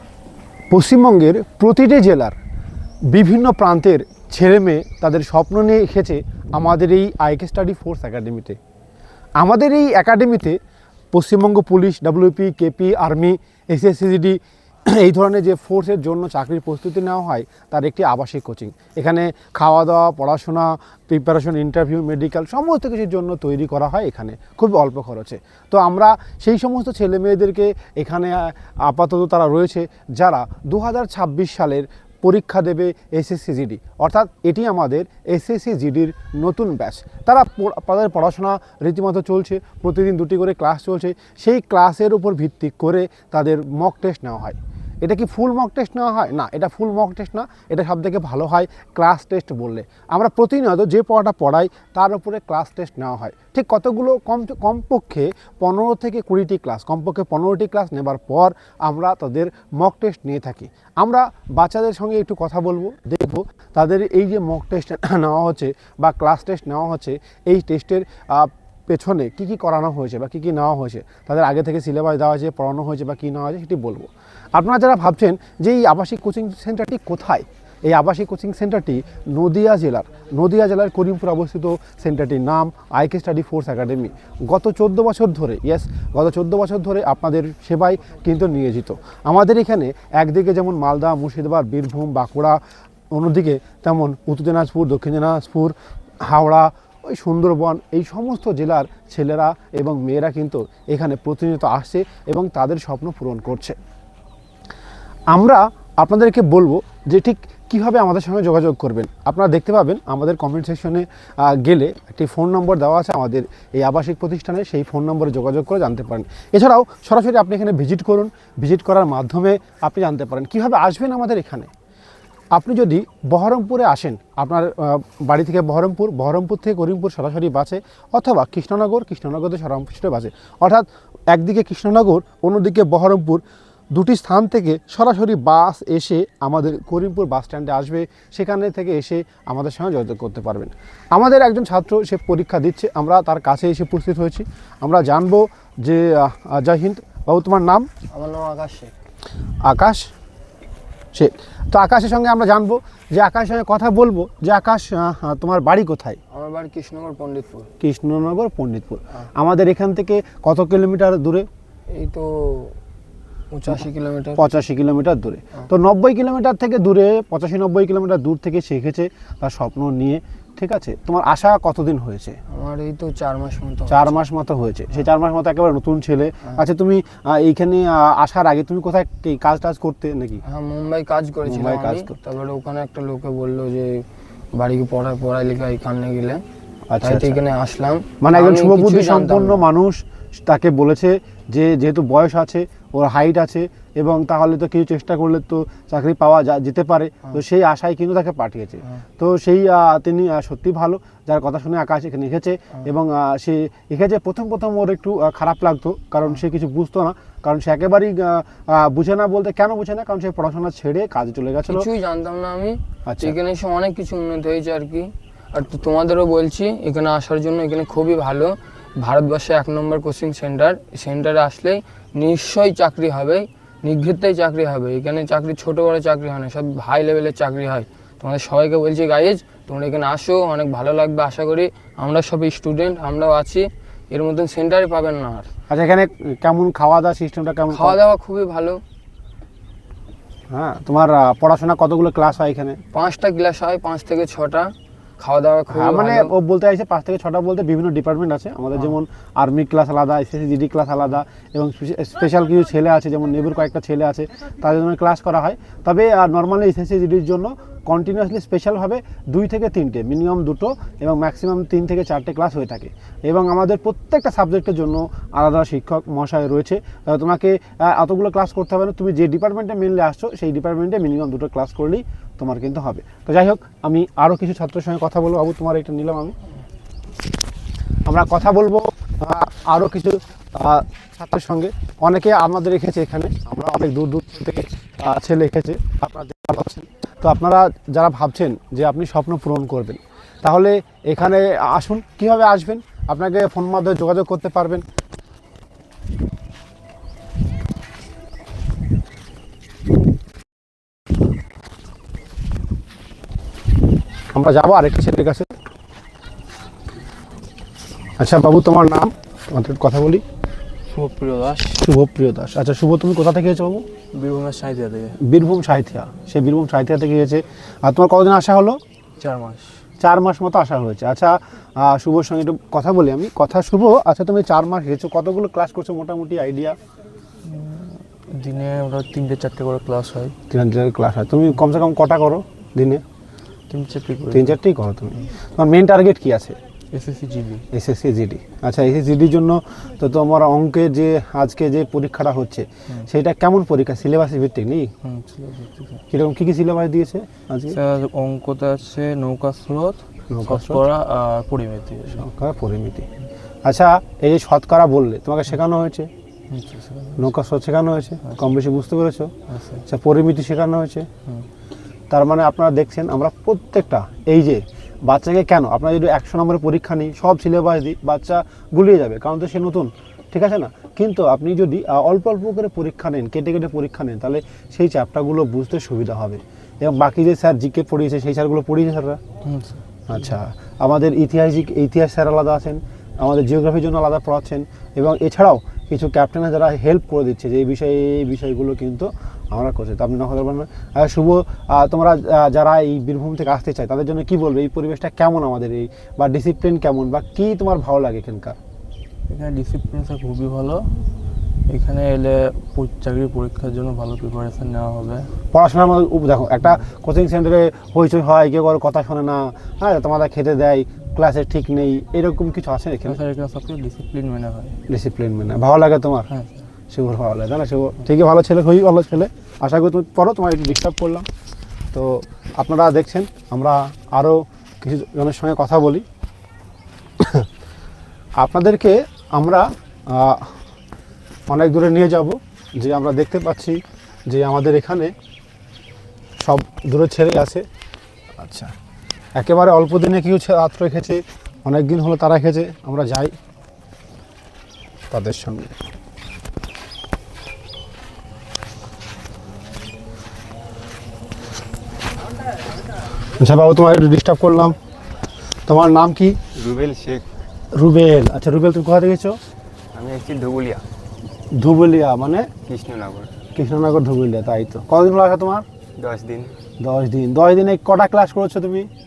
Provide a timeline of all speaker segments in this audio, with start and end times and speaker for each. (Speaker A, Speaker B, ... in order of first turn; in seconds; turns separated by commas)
Speaker A: 0.7-2.4, Speaker A: 3.1-8.6, Speaker A: 9.4-10.6, Speaker A: 11.1-92.6, Speaker A: 93.1-103.8, Speaker A: 105.3-121.7, Speaker A: 122.5-147.9, Speaker B: 148.1-148.9, Speaker A: 149.6-150.1, Speaker A: 151.1-156.2, Speaker B: 156.3-157.7, Speaker A: 157.8-161.5, Speaker B: 161.9-162.8, Speaker B: 163.5-164.4, Speaker A: 164.3-172.4, Speaker B: 172.5-174.2, Speaker A: 173.9-180.4, Speaker B: 180.4-186.4, Speaker A: 181.4-182.1, Speaker A: 186.9-187.4, Speaker B: 187.0-189.6, Speaker A: 188.2-211.9, Speaker B: 211.7-235.5, Speaker A: 213.1-213.3, Speaker A: 235.7-238.0, Speaker B: 237.7-238.8, Speaker A: 240.5-242.8, Speaker B: 242.9-246.3, Speaker A: 245.7-276.3, Speaker A: 278.1-294.8, Speaker A: 304.3-305.5, Speaker A: 308.2-310.2, Speaker C: 310.9-311.8, Speaker A: 311.8-313.9, Speaker C: 314.1-315.2, Speaker A: 315.2-318.8, Speaker C: 319.2-319.8, Speaker A: 320.0-326.8, Speaker C: 327.4-330.3, Speaker A: 330.5-333.0, Speaker C: 333.7-334.6, Speaker A: 334.3-336.6, Speaker C: 336.9-337.6, Speaker A: 337.7-344.9, Speaker C: 345.0-346.0, Speaker A: 346.1-347.8, Speaker C: 347.7-352.2, Speaker A: 350.3-350.8, Speaker A: 352.1-353.1, Speaker A: 353.6-356.1, Speaker C: 356.5-357.3, Speaker A: 357.2-359.3, Speaker C: 359.5-359.8, Speaker A: 359.9-361.1, Speaker A: 362.1-379.2, Speaker C: 379.4-379.8, Speaker A: 380.1-398.6, Speaker C: 399.3-401.0, Speaker C: 401.7-405.3, Speaker A: 405.5-413.2, Speaker C: 413.0-414.8, Speaker A: 414.9-416.3, Speaker C: 416.3-416.6, Speaker A: 416.9-421.2, Speaker A: 421.9-426.0, Speaker A: 427.2-427.4, Speaker A: 428.4-430.5, Speaker A: 431.5-435.1, Speaker A: 436.4-437.6, Speaker A: 438.4-438.7, Speaker A: 439.4-443.3, Speaker A: 445.1-445.8, Speaker A: 453.4-454.8, Speaker A: 455.7-456.4, Speaker D: 456.5-457.2, Speaker A: 457.7-459.4, Speaker D: 459.9-460.8, Speaker A: 461.5-462.5, Speaker D: 462.7-463.3, Speaker A: 463.5-465.6, Speaker D: 466.0-466.5, Speaker A: 466.8-468.9